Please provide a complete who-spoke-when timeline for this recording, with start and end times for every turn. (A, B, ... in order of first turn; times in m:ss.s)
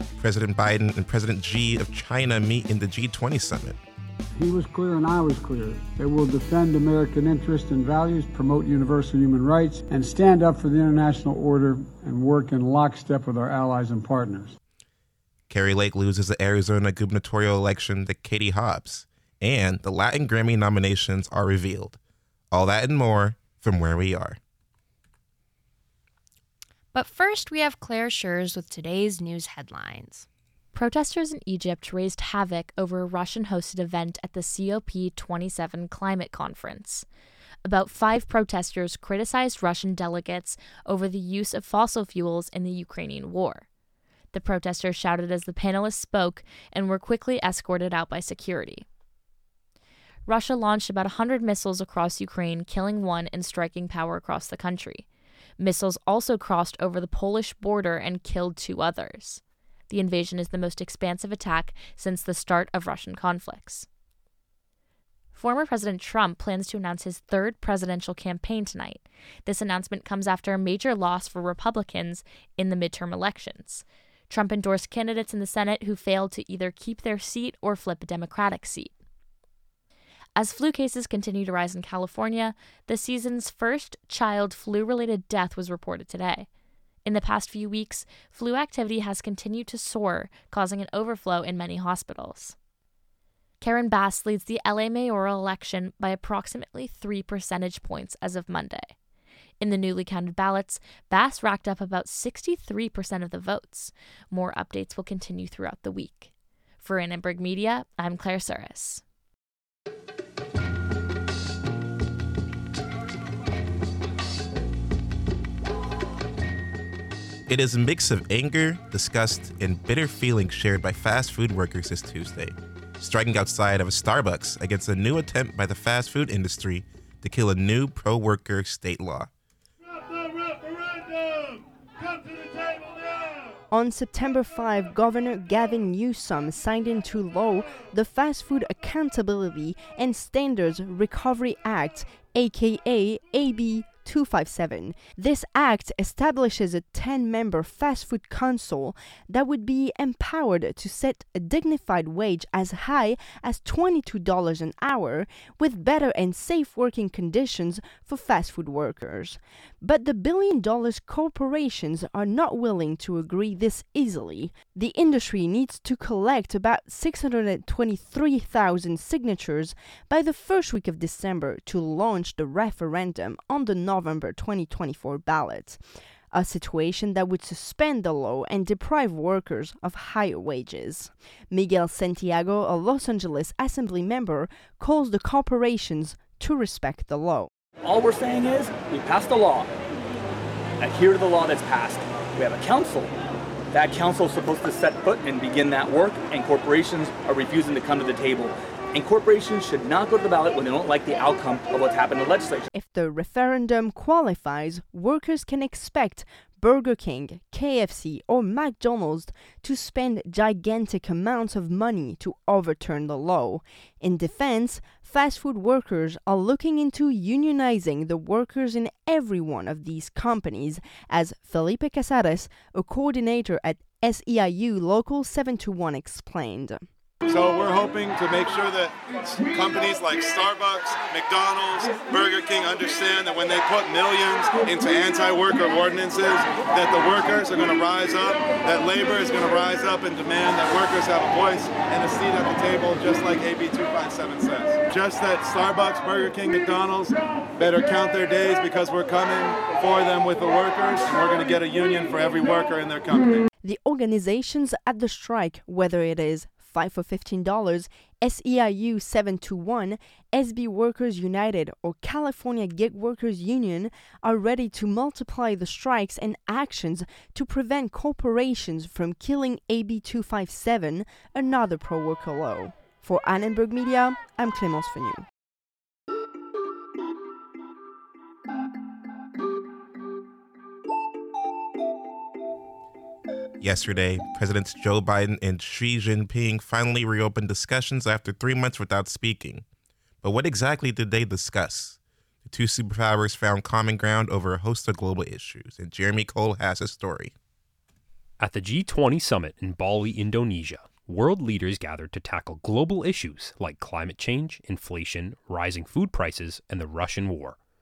0:00.2-0:03.8 A
0:04.4-0:14.5 B
0:15.5-0:22.0 A
0:22.5-0:24.4 A
0:26.9-0:30.3 C
0:30.7-0:37.1 D
0:37.7-0:43.6 D
0:44.3-0:48.8 D
0:50.3-0:55.0 D
0:55.6-1:03.9 D
1:05.3-1:18.9 D
1:20.4-1:26.5 D
1:27.0-1:32.6 D
1:33.6-1:38.9 D
1:39.6-1:49.0 D
1:57.5-2:09.3 A
2:13.7-2:55.8 E
2:56.3-3:07.5 E
3:07.8-3:09.7 F
3:10.8-3:13.1 F
3:13.7-3:22.6 F
3:22.7-3:46.8 E
3:47.2-4:13.5 G
4:13.6-4:35.3 E
4:43.6-4:49.6 A
4:50.2-4:57.3 A
4:58.4-5:07.6 H